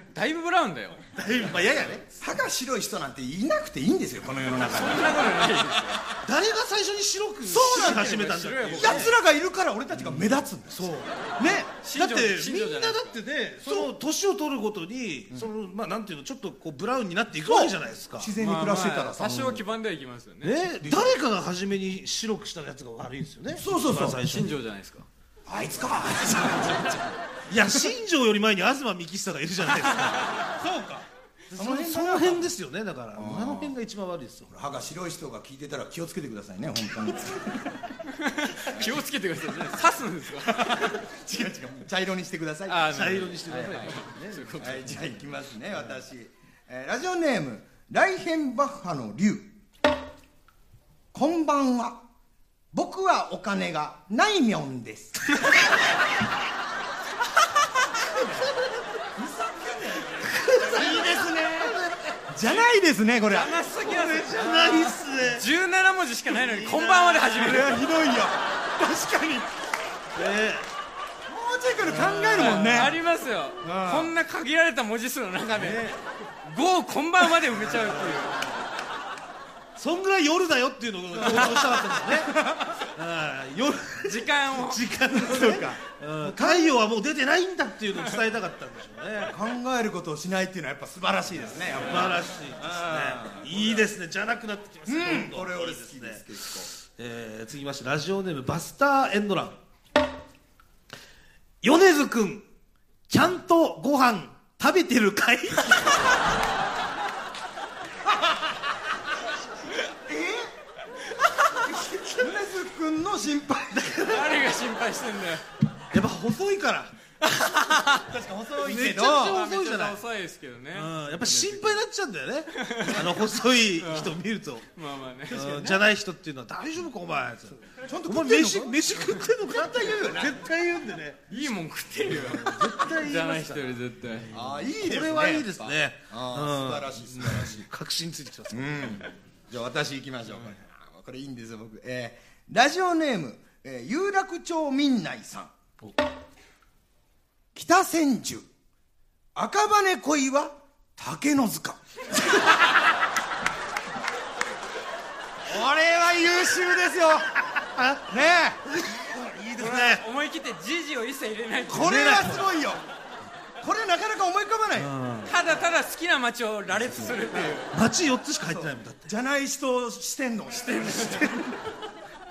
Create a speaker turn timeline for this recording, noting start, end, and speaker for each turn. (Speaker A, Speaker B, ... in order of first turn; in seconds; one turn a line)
Speaker A: 0.1-1.0
Speaker B: 1.1-2.0
Speaker C: 2.1-5.2
Speaker A: 4.6-6.0
Speaker B: 6.2-9.1
Speaker C: 7.5-8.2
Speaker A: 7.5-9.1
Speaker C: 8.8-11.7
Speaker A: 11.8-13.2
Speaker B: 11.9-18.3
Speaker C: 13.6-13.9
Speaker C: 17.4-19.6
Speaker A: 18.4-20.6
Speaker B: 20.4-24.5
Speaker C: 23.6-24.2
Speaker A: 24.2-25.1
Speaker C: 25.5-27.0
Speaker B: 27.5-30.3
Speaker C: 30.6-32.5
Speaker B: 31.5-34.5
Speaker C: 33.1-33.7
Speaker C: 34.5-37.7
Speaker A: 38.1-40.9
Speaker C: 40.5-43.0
Speaker A: 42.7-45.0
Speaker B: 42.9-44.7
Speaker C: 44.6-49.5
Speaker C: 51.1-52.0
Speaker C: 52.7-55.5
Speaker B: 58.1-58.7
Speaker C: 59.1-63.6
Speaker B: 60.2-62.2
Speaker A: 63.3-67.8
Speaker B: 63.8-65.5
Speaker B: 66.3-67.6
Speaker C: 67.4-69.5
Speaker B: 70.2-70.7
Speaker C: 71.3-73.0
Speaker B: 72.0-72.4
Speaker A: 72.0-75.8
Speaker C: 73.6-74.1
Speaker B: 75.5-76.0
Speaker A: 76.4-78.4
Speaker B: 77.6-78.2
Speaker B: 79.8-89.4
Speaker C: 81.2-82.8
Speaker A: 84.0-84.8
Speaker C: 85.1-86.8
Speaker C: 89.3-93.8
Speaker B: 91.8-99.6
Speaker C: 94.9-96.7
Speaker B: 101.6-102.5
Speaker B: 103.1-105.9
Speaker C: 110.0-110.5
Speaker C: 112.1-114.1
Speaker B: 113.7-114.3
Speaker A: 114.1-115.4
Speaker B: 115.9-117.0
Speaker A: 117.2-118.1
Speaker C: 117.9-119.4
Speaker B: 118.6-120.0
Speaker A: 119.0-121.7
Speaker B: 120.7-124.6
Speaker A: 122.5-123.0
Speaker A: 123.8-124.2
Speaker A: 124.7-125.7
Speaker B: 125.3-131.3
Speaker C: 127.7-128.8
Speaker C: 129.4-130.4
Speaker A: 131.3-134.3
Speaker B: 132.2-133.7
Speaker B: 134.3-139.0
Speaker C: 134.3-137.7
Speaker C: 138.5-145.5
Speaker C: 147.5-148.4
Speaker C: 149.3-151.8
Speaker C: 155.4-157.3
Speaker B: 157.6-158.0
Speaker C: 158.1-158.6
Speaker B: 158.7-160.0
Speaker A: 159.6-161.9
Speaker B: 161.7-162.5
Speaker C: 161.7-162.8
Speaker C: 163.6-164.9
Speaker B: 164.8-165.3
Speaker A: 165.2-167.7
Speaker B: 167.7-169.1
Speaker C: 168.5-171.6